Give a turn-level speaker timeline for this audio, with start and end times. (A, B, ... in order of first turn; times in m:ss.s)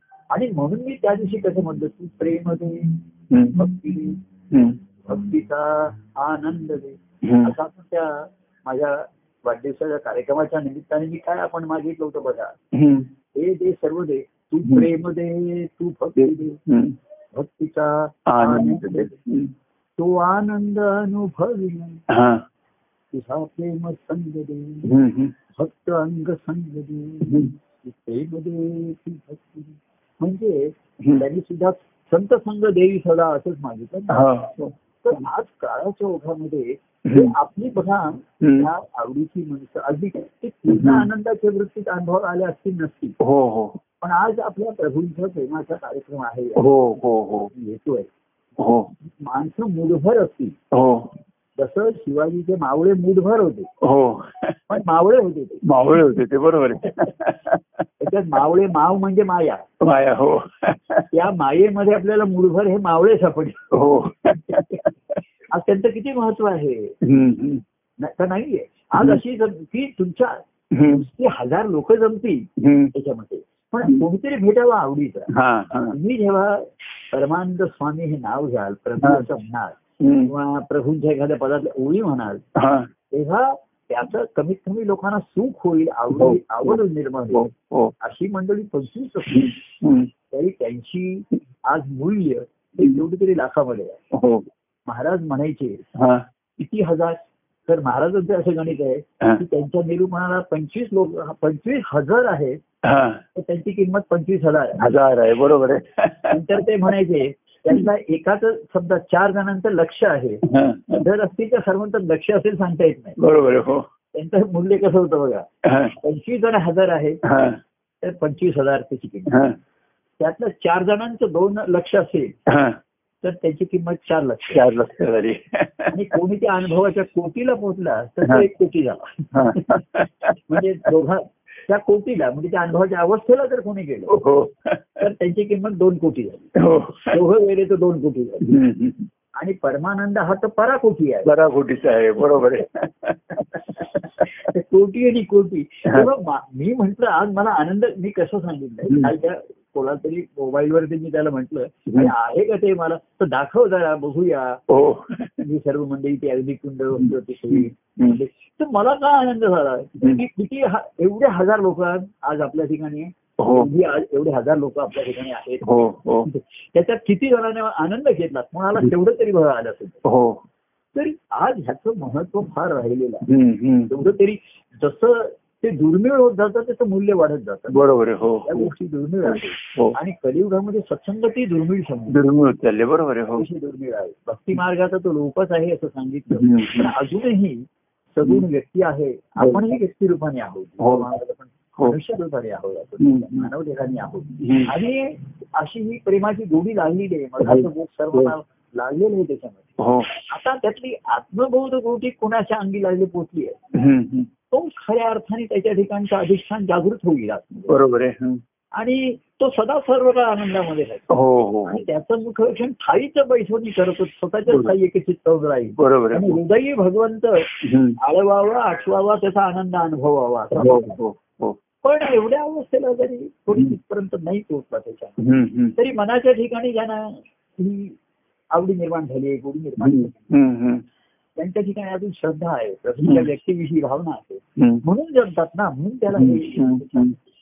0:00.3-0:03.0 A
0:03.3-0:03.6 B
0:03.5-0:04.2 A
0:04.5-0:04.8 B
0:05.0-0:12.6 A
0:07.2-0:07.5 B
0:12.7-0:13.1 B
0:13.3-0:16.6 A
0:16.2-0:17.0 B
0:17.3-0:19.1 A
0:18.3-0:19.5 B
0:20.0-0:22.0 A
0:22.1-0:22.4 B
0:23.1-0:24.9 A
0:24.8-0:25.3 B
0:25.5-0:34.3 A
0:27.2-0:27.5 B
0:34.1-0:35.2 B
0:35.0-0:43.2 A
0:37.0-0:37.3 B
0:38.4-0:38.7 B
0:40.7-0:41.1 B
0:43.2-0:43.8 B
0:44.0-0:46.6 A
0:46.6-0:47.5 B
0:47.5-0:48.1 A
0:48.6-0:48.9 B
0:49.0-0:50.6 A
0:50.7-0:51.1 B
0:51.6-0:53.7 A
0:53.8-0:54.6 B
0:54.7-0:55.6 A
0:55.6-0:57.8 B
0:58.0-0:59.6 A
0:59.8-1:01.1 B
1:01.1-1:03.6 A
1:03.7-1:05.2 B
1:05.5-1:07.0 A
1:07.0-1:07.6 B
1:08.0-1:22.4 A
1:10.7-1:11.0 B
1:12.6-1:12.9 B
1:15.3-1:16.0 B
1:19.0-1:19.3 B
1:20.0-1:20.3 B
1:22.5-1:22.9 B
1:23.1-1:27.5 A
1:26.1-1:26.8 B
1:27.3-1:27.9 B
1:28.0-1:29.6 A
1:29.3-1:30.1 B
1:30.3-1:34.0 A
1:34.1-1:34.5 B
1:34.9-1:35.8 A
1:35.9-1:36.2 B
1:36.6-1:42.6 A
1:42.8-1:43.2 B
1:43.3-1:44.9 A
1:44.8-1:46.6 B
1:46.3-1:53.2 A
1:50.4-1:51.0 B
1:53.2-1:53.9 B
1:54.1-1:57.2 A
1:55.6-1:55.9 B
1:57.2-1:57.6 B
1:58.0-1:59.6 A
1:59.3-1:59.6 B
2:00.2-2:02.4 A
2:02.5-2:02.8 B
2:03.2-2:04.7 A
2:04.5-2:06.1 B
2:05.9-2:09.8 A
2:09.3-2:10.6 B
2:10.4-2:14.2 A
2:14.1-2:15.0 B
2:15.0-2:18.6 A
2:16.6-2:17.2 B
2:18.4-2:19.1 B
2:19.4-2:21.3 A
2:21.2-2:24.3 B
2:24.4-2:34.6 A
2:28.8-2:29.1 B
2:34.7-2:35.3 B
2:35.4-2:45.7 A
2:37.0-2:38.2 B
2:43.4-2:43.7 B
2:45.6-2:46.3 B
2:46.2-2:50.0 A
2:50.0-2:50.4 B
2:50.9-2:53.2 A
2:53.2-2:53.9 B
2:53.9-2:57.8 A
2:57.7-2:58.7 B
2:58.4-3:02.2 A
2:59.2-3:00.0 B
3:02.1-3:03.4 B
3:03.3-3:19.7 A
3:06.3-3:06.9 B
3:09.4-3:09.7 B
3:10.8-3:11.1 B
3:13.0-3:13.5 B
3:14.4-3:14.7 B
3:17.4-3:18.3 B
3:19.8-3:20.1 B
3:20.3-3:23.6 A
3:23.7-3:24.3 B
3:24.5-3:27.8 A
3:27.7-3:28.4 B
3:28.8-3:31.1 A
3:31.1-3:31.8 B
3:31.6-3:37.5 A
3:34.5-3:34.7 B
3:35.8-3:36.4 B
3:37.6-3:38.0 B
3:38.0-3:41.0 A
3:40.6-3:41.6 B
3:41.8-3:45.2 A
3:45.2-3:45.7 B
3:45.8-3:48.0 A
3:48.5-3:50.3 A
3:49.8-3:50.8 B
3:51.4-3:57.2 A
3:53.0-3:53.3 B
3:54.6-3:54.8 B
3:56.1-3:57.2 B